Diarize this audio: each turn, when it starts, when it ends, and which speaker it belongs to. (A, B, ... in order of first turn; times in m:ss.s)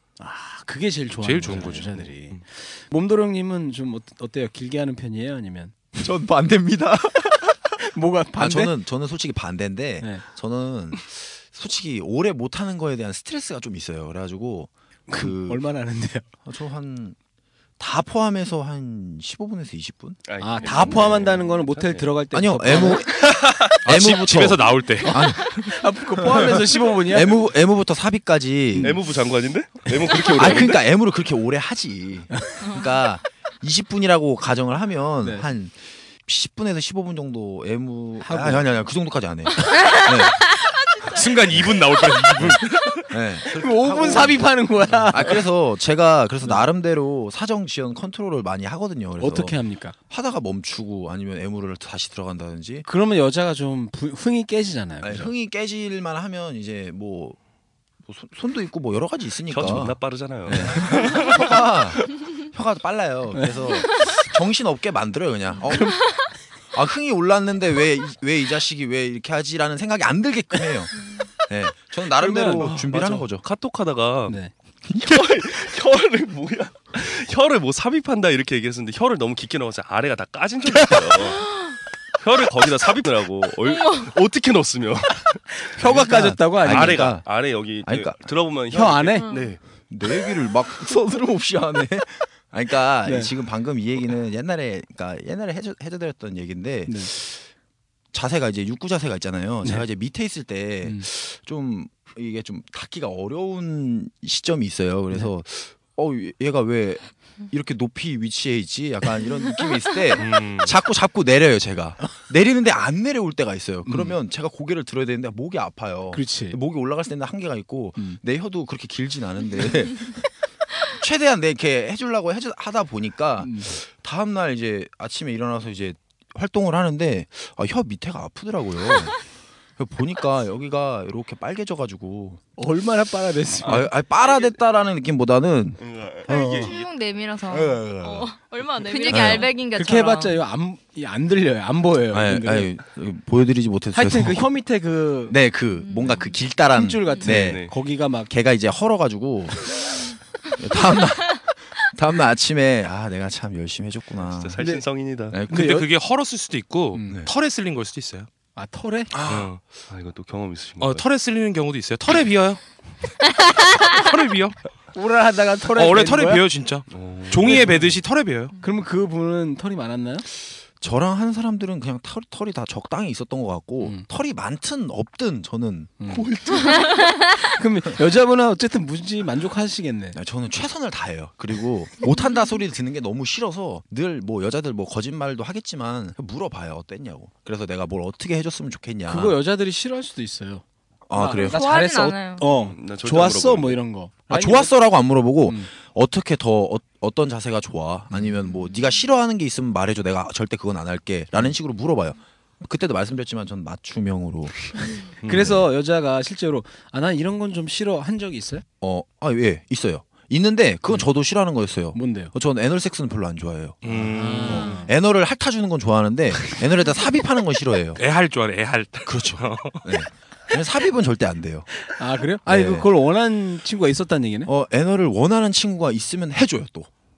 0:00.2-0:05.8 A
0:01.2-0:02.4 B
0:06.0-0:07.8 C
0:07.8-0:08.7 A
0:08.3-0:15.6 C
0:15.1-0:16.2 A
0:16.4-0:17.2 C
0:17.8-0:21.0 C
0:20.2-0:22.1 D
0:20.4-0:23.5 A
0:22.3-0:23.3 C
0:23.8-0:29.0 C
0:23.8-0:25.3 B
0:25.0-0:27.3 A
0:28.8-0:30.8 D
0:30.3-0:40.4 C
0:38.2-0:38.8 A
0:41.0-0:41.4 E
0:41.1-0:43.1 B
0:41.5-0:41.8 C
0:42.4-0:49.6 C
0:43.5-0:45.4 A
0:49.2-0:49.9 A
0:50.1-0:52.8 C
0:52.8-0:55.3 A
0:55.0-0:57.4 C
0:58.0-1:06.2 C
0:59.5-1:01.2 D
1:05.7-1:06.2 A
1:06.7-1:10.9 C
1:11.5-1:13.4 C
1:12.2-1:13.2 A
1:12.6-1:14.4 D
1:14.3-1:14.5 A
1:15.0-1:21.6 D
1:21.5-1:21.7 E
1:22.2-1:25.6 D
1:23.6-1:24.2 E
1:25.5-1:27.2 A
1:25.8-1:28.3 C
1:26.6-1:29.6 D
1:28.7-1:29.3 A
1:29.1-1:29.6 E
1:29.9-1:37.4 C
1:33.0-1:33.3 A
1:38.1-2:00.3 C
1:50.2-1:50.7 B
1:53.8-1:54.2 A
1:56.1-1:56.6 A
2:00.8-2:09.2 C
2:03.4-2:03.8 A
2:09.8-2:12.4 C
2:12.6-2:13.9 A
2:13.6-2:16.7 C
2:14.2-2:14.6 D
2:15.8-2:16.7 D
2:16.3-2:17.9 F
2:17.5-2:18.4 C
2:17.9-2:19.7 E
2:18.8-2:20.4 F
2:19.1-2:19.5 C
2:19.7-2:22.7 A
2:22.1-2:24.5 C
2:23.9-2:25.4 A
2:25.3-2:27.7 C
2:26.7-2:28.3 A
2:27.3-2:27.7 D
2:28.3-2:35.8 C
2:34.2-2:35.4 D
2:35.5-2:38.3 B
2:35.5-2:35.8 A
2:36.9-2:37.2 A
2:38.5-2:39.1 A
2:39.1-2:39.5 C
2:39.3-2:39.6 B
2:39.9-2:41.0 D
2:40.8-2:42.6 B
2:43.9-2:44.6 B
2:44.9-2:46.4 A
2:45.7-2:48.5 B
2:46.9-2:47.9 D
2:47.4-2:47.8 A
2:48.6-2:50.2 A
2:50.8-2:56.1 C
2:53.8-2:54.1 A
2:56.0-2:56.3 A
2:57.5-3:00.2 A
3:00.1-3:09.4 C
3:09.1-3:14.7 A
3:11.1-3:11.6 C
3:11.4-3:12.5 F
3:12.4-3:13.8 D
3:14.3-3:25.5 C
3:15.4-3:15.7 A
3:18.1-3:18.4 A
3:25.2-3:28.6 A
3:28.8-3:38.0 C
3:31.9-3:32.3 A
3:33.8-3:34.7 B
3:33.8-3:34.9 A
3:38.0-3:40.0 B
3:39.0-3:41.9 C
3:41.8-3:44.5 A
3:42.4-3:42.9 C
3:44.4-3:46.9 C